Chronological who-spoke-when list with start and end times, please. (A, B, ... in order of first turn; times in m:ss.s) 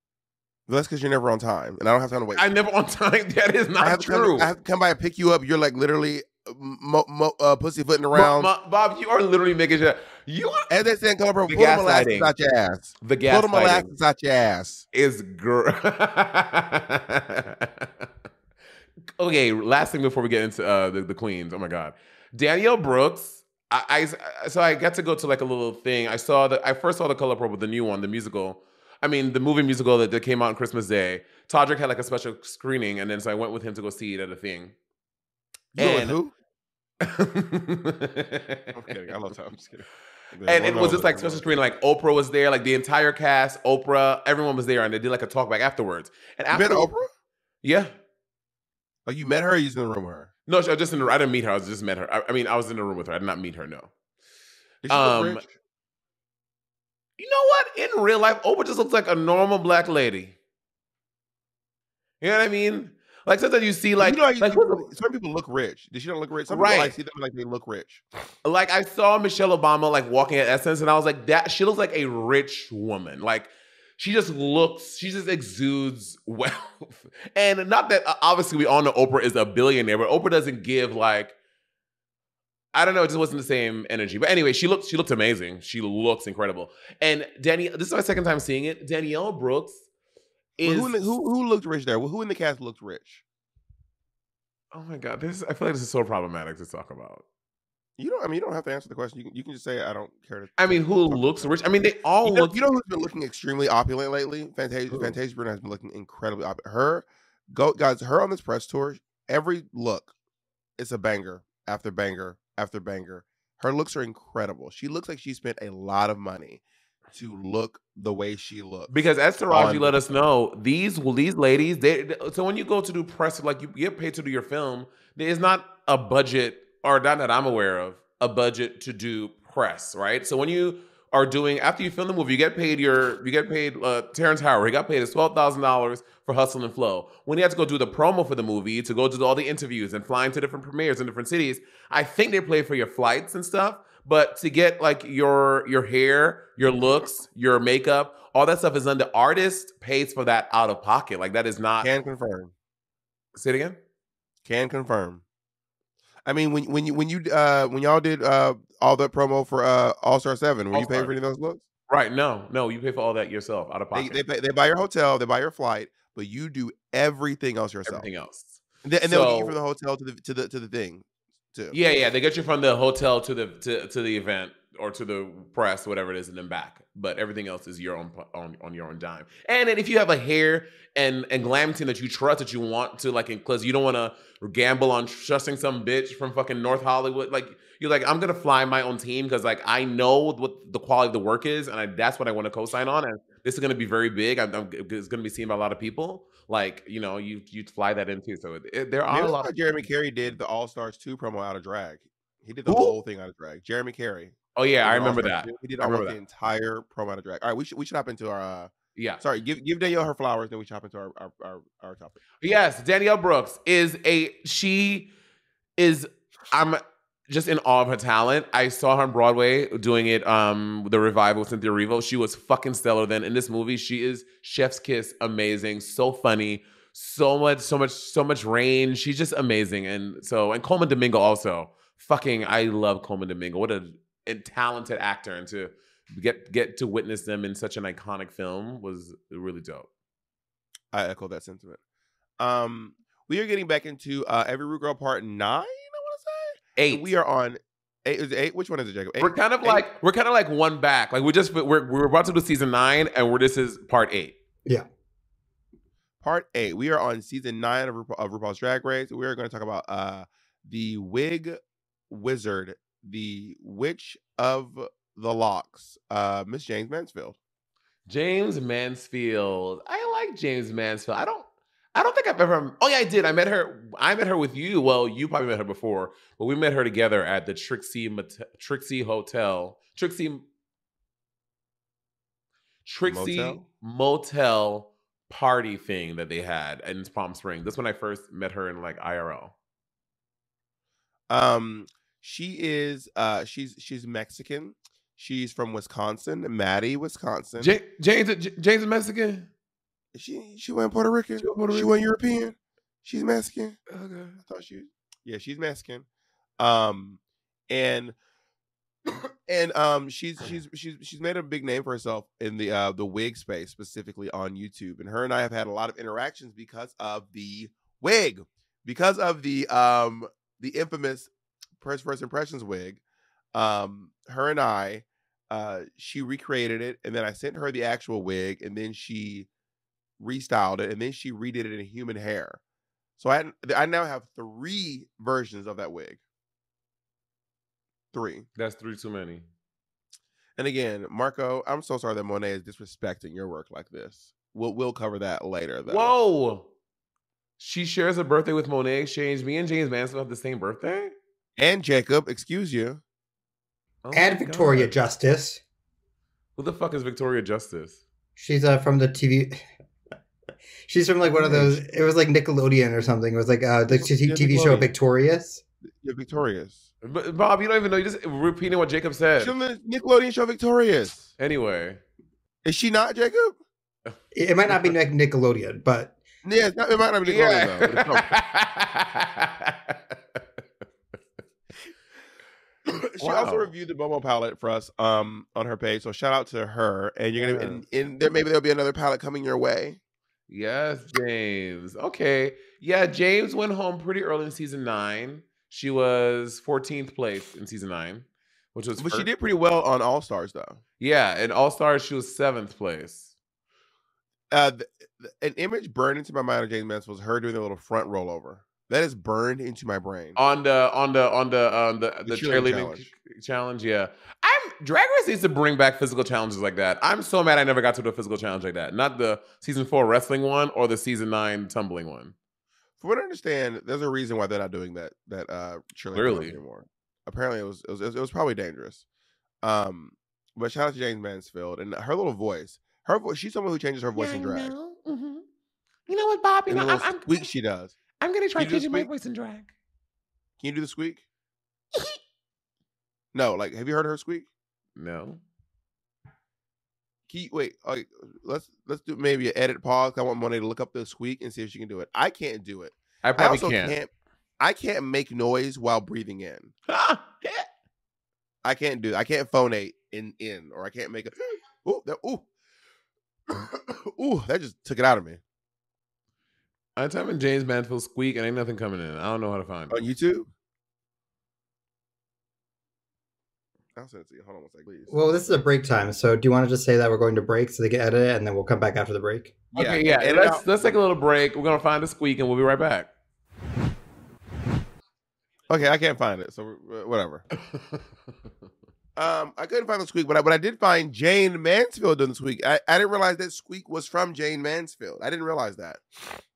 0:00.7-0:02.5 A
0:02.3-0:04.5 B
0:03.8-0:08.5 A
0:08.1-0:10.7 B
0:10.7-0:14.8 A
0:11.5-0:12.3 B
0:13.0-0:13.9 B
0:14.9-0:18.0 B
0:19.2-0:34.7 B
0:35.7-0:36.3 A
0:35.8-0:36.2 B
0:37.0-0:38.7 B
0:38.7-0:41.4 A
0:40.4-0:46.9 B
0:46.5-0:47.1 A
0:47.6-0:47.9 B
0:49.0-0:50.3 A
0:50.5-0:53.9 B
0:54.8-0:55.5 A
0:54.9-0:55.4 B
0:57.2-1:00.4 B
1:02.2-1:04.9 B
1:04.0-1:08.0 A
1:06.5-1:06.9 B
1:08.4-1:21.3 B
1:22.7-1:29.8 B
1:30.6-1:33.2 A
1:30.6-1:31.1 B
1:34.7-1:37.2 B
1:38.0-1:41.5 A
1:40.6-1:42.6 B
1:42.2-1:50.1 A
1:50.8-1:56.6 A
1:57.1-1:58.9 A
1:58.9-2:31.9 B
1:59.5-2:00.0 A
2:31.8-2:32.5 A
2:33.3-2:33.8 B
2:34.4-2:35.2 A
2:36.2-2:41.6 A
2:40.7-2:41.1 B
2:41.9-2:44.2 B
2:43.9-2:48.1 A
2:47.8-2:49.6 B
2:48.8-2:51.8 A
2:51.7-3:19.5 B
3:19.1-3:32.2 A
3:22.7-3:22.9 B
3:24.6-3:26.2 B
3:29.0-3:29.2 B
3:32.4-3:35.1 B
3:35.8-3:59.9 B
4:00.9-4:01.8 A
4:02.4-4:09.8 A
4:06.8-4:07.0 B
4:09.2-4:14.4 B
4:16.2-4:27.4 A
4:28.1-4:40.4 B
4:42.8-4:49.5 B
4:43.1-4:43.6 A
4:51.3-4:57.7 A
4:57.6-4:59.5 B
5:00.1-5:03.8 A
5:01.4-5:01.9 B
5:03.9-5:04.4 B
5:04.4-5:06.0 A
5:06.6-5:08.2 A
5:09.5-5:23.0 A
5:23.5-5:29.5 A
5:30.2-5:32.6 A
5:33.2-5:36.2 A
5:38.1-5:38.5 A
5:38.6-5:39.4 B
5:40.6-5:46.1 A
5:45.8-5:46.7 B
5:47.6-5:51.1 B
5:51.6-5:53.0 A
5:54.0-5:54.9 B
5:54.1-5:55.6 C
5:56.6-5:58.0 B
5:58.4-5:59.6 C
6:00.9-6:05.6 C
6:01.3-6:01.8 A
6:03.9-6:04.9 A
6:06.0-6:06.8 A
6:07.0-6:09.5 B
6:09.4-6:11.3 A
6:11.4-6:12.0 B
6:12.6-6:13.6 A
6:14.3-6:16.1 C
6:16.4-6:18.3 A
6:17.3-6:20.0 B
6:22.9-6:30.0 A
6:23.2-6:23.7 B
6:27.4-6:27.8 B
6:30.5-6:39.3 B
6:39.0-6:40.8 A
6:41.0-6:43.3 B
6:44.5-6:50.4 A
6:50.4-7:02.3 B
6:52.2-6:53.1 A
7:03.0-7:09.0 A
7:06.1-7:06.6 B
7:09.6-7:14.7 A
7:14.1-7:15.4 B
7:16.1-7:17.4 B
7:16.7-7:18.0 A
7:18.2-7:19.7 B
7:18.6-7:19.1 A
7:20.6-7:21.2 A
7:23.3-7:24.5 A
7:25.0-7:25.4 B
7:27.3-7:36.7 A
7:33.2-7:34.0 B
7:36.9-7:37.6 B
7:38.6-7:42.4 A
7:43.5-7:45.4 A
7:47.0-7:49.9 B
7:49.9-7:50.5 A
7:54.0-7:55.1 A
7:55.1-7:59.6 C
7:59.7-8:01.0 A
7:59.7-8:03.1 B
8:05.7-8:07.4 A
8:07.6-8:08.0 B
8:09.2-8:16.0 A